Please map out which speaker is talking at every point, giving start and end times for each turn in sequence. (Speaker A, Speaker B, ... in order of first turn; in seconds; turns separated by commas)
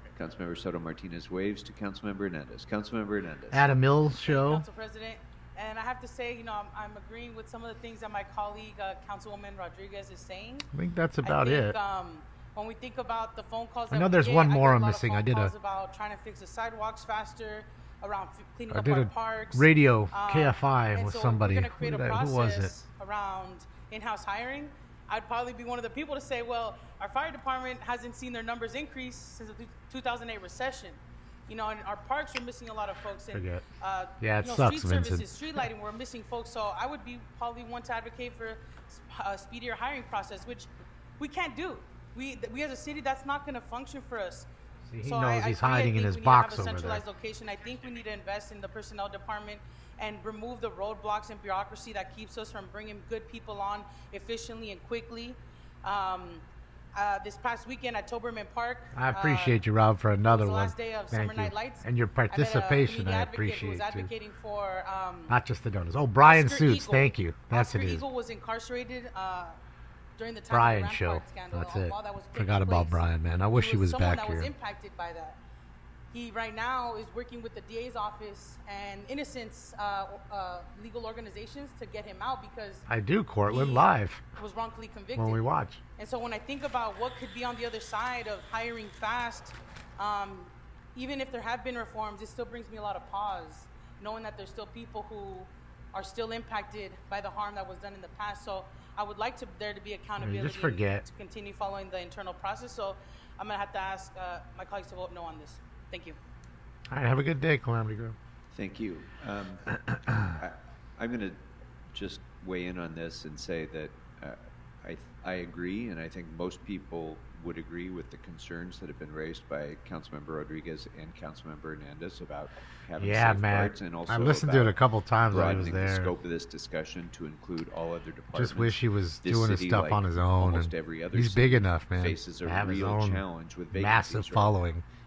Speaker A: 0.1-3.7, Speaker B: 3.5-4.7, Speaker C: 4.2-10.7, Speaker B: 10.7-11.8, Speaker C: 11.2-44.5, Speaker B: 13.9-15.5, Speaker B: 18.7-22.7, Speaker B: 33.3-33.6, Speaker B: 34.2-35.3, Speaker B: 44.9-47.0, Speaker C: 45.0-59.6, Speaker B: 58.9-64.1, Speaker C: 60.2-65.4, Speaker B: 65.3-68.1, Speaker C: 66.2-69.6, Speaker C: 70.2-75.4, Speaker B: 70.5-74.5, Speaker C: 76.1-82.8, Speaker B: 82.9-84.2, Speaker C: 83.5-85.4, Speaker B: 85.2-85.8, Speaker C: 86.0-106.2, Speaker B: 100.2-101.0, Speaker B: 106.9-108.2, Speaker A: 108.5-111.4, Speaker A: 111.9-124.8, Speaker B: 123.0-126.1, Speaker A: 125.3-134.6, Speaker B: 128.3-134.8